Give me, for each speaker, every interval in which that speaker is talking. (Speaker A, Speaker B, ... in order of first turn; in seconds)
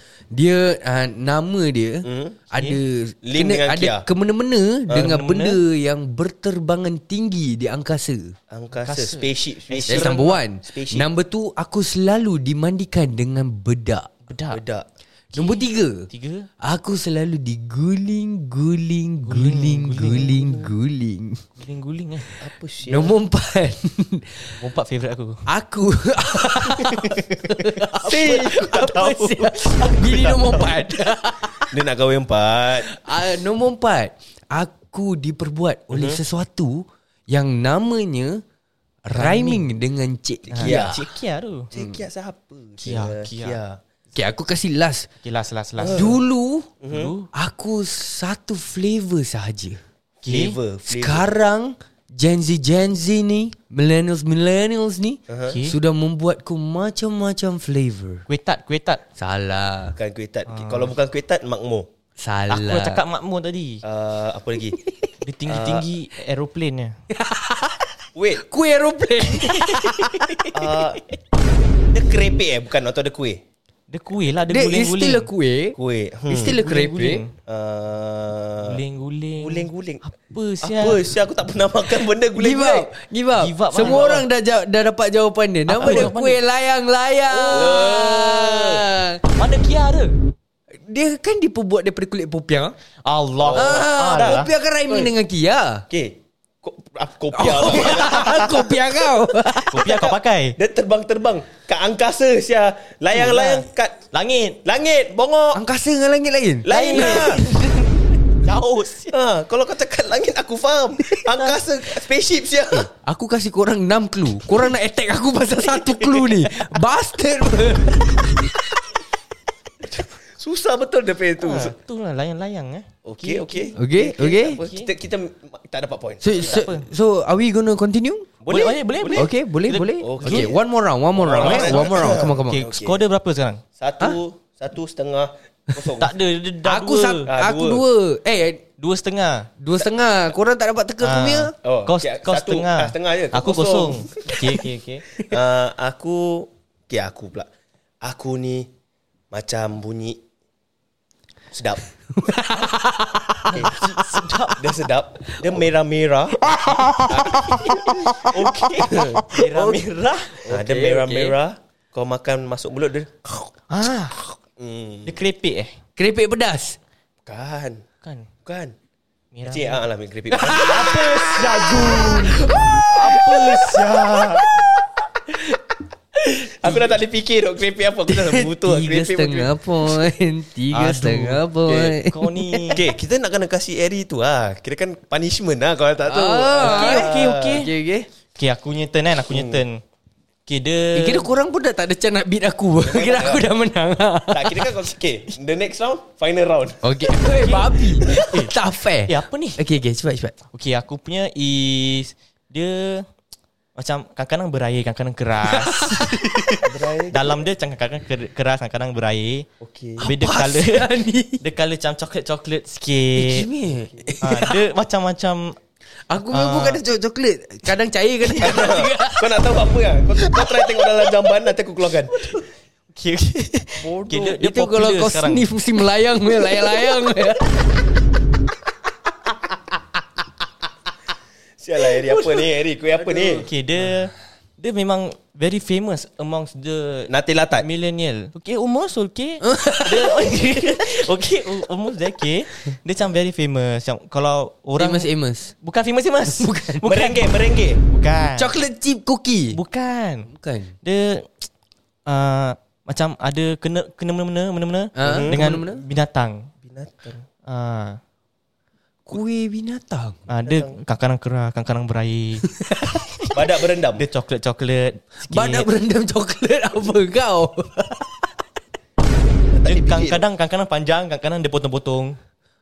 Speaker A: 0.3-8.3, 9.9-14.1, 15.3-16.1, 16.6-21.4, 22.9-24.5, 25.4-31.7, 32.9-38.4, 39.0-40.9, 41.7-42.0, 44.1-45.1, 45.8-46.7, 47.3-49.8, 50.9-58.2, 59.2-60.0, 62.2-63.0, 67.1-67.8, 68.4-70.4, 74.5-75.8, 76.3-77.2, 82.3-89.2, 90.9-92.8, 93.5-95.8, 97.3-100.0, 105.5-107.5, 112.7-118.5, 123.8-124.6, 126.2-128.3, 129.1-132.6, 136.6-138.6, 139.6-141.5, 152.2-154.2, 156.5-159.1, 160.4-161.4, 166.0-166.8, 170.3-172.8, 175.3-175.6, 176.3-176.8, 178.1-182.8, 186.0-188.1, 190.9-194.8, 196.8-200.3, 205.5-206.5, 210.0-211.4, 213.2-214.6, 216.1-219.4, 220.2-221.1, 223.8-227.6, 239.4-240.4, 244.8-245.5, 246.2-246.8, 248.4-249.6, 250.3-250.7, 254.9-255.8, 259.1-260.2, 262.4-263.0, 265.3-268.3
Speaker B: 2.0-2.4, 3.2-4.1, 8.5-11.1, 14.5-14.9, 20.1-20.7, 22.4-23.2, 28.0-29.0, 31.7-32.9, 35.9-36.2, 40.6-41.0, 41.7-43.8, 45.8-46.2, 46.8-47.1, 50.2-51.3, 55.3-55.6, 60.0-61.9, 63.8-64.8, 65.5-65.9, 68.1-68.4, 70.5-71.0, 71.9-73.4, 75.8-76.6, 77.5-78.8, 79.4-80.0, 80.6-82.9, 83.8-84.2, 85.7-86.1, 87.4-88.8, 93.4-95.1, 95.9-98.8, 99.7-104.0, 104.6-105.6, 106.6-107.4, 109.1-112.9, 120.3-121.7, 123.0-126.7, 128.4-129.3, 130.0-130.6, 131.2-133.0, 133.8-136.1, 137.2-137.8, 141.6-144.4, 145.2-147.5, 148.0-148.7, 149.3-150.2, 151.5-151.8, 154.6-163.1, 164.6-165.2, 167.2-167.8, 168.4-168.7, 169.4-170.9, 176.6-179.6, 181.7-181.9, 182.7-187.6, 189.3-189.6, 192.8-193.5, 194.3-197.1, 206.6-207.4, 209.6-210.1, 218.4-222.1, 231.6-233.5, 237.1-237.7, 246.8-247.8, 255.0-255.4, 256.6-257.2, 260.4-260.7, 263.3-264.1, 269.5-270.2
Speaker C: 4.9-5.6, 8.8-10.3, 14.3-14.6, 15.3-16.5, 19.2-20.3, 21.6-22.3, 24.5-25.4, 26.8-30.7, 39.1-39.7, 40.5-41.7, 42.8-43.6, 45.2-46.1, 46.9-47.3, 50.2-50.6, 55.4-55.8, 58.3-59.0, 60.5-60.9, 62.5-63.8, 65.2-67.0, 69.5-70.5, 73.9-75.3, 76.5-77.3, 78.6-81.0, 83.4-84.2, 85.7-86.4, 87.5-87.8, 89.3-90.2, 93.0-94.5, 99.7-100.5, 103.1-104.6, 106.7-107.6, 108.4-109.2, 111.3-111.6, 115.8-116.3, 121.4-123.7, 124.6-124.9, 126.4-126.9, 128.5-130.5, 131.4-133.6, 136.0-137.3, 138.8-139.5, 141.0-145.0, 153.5-154.7, 157.1-157.7, 158.3-160.4, 163.7-164.2, 165.1-165.7, 168.0-168.3, 169.3-169.8, 170.6-174.4, 180.7-182.8, 186.6-187.7, 188.3-189.8, 190.4-191.3, 197.3-198.5, 199.1-199.6, 200.5-203.1, 203.8-206.5, 207.1-209.5, 210.0-213.4, 214.2-215.6, 216.3-216.8, 222.9-225.5, 226.3-226.9, 232.0-232.5, 233.0-245.1, 245.6-247.2, 247.9-248.5, 249.5-250.3, 250.8-251.3, 252.1-256.5, 257.4-258.0, 260.3-262.5, 263.9-265.7, 269.6-272.2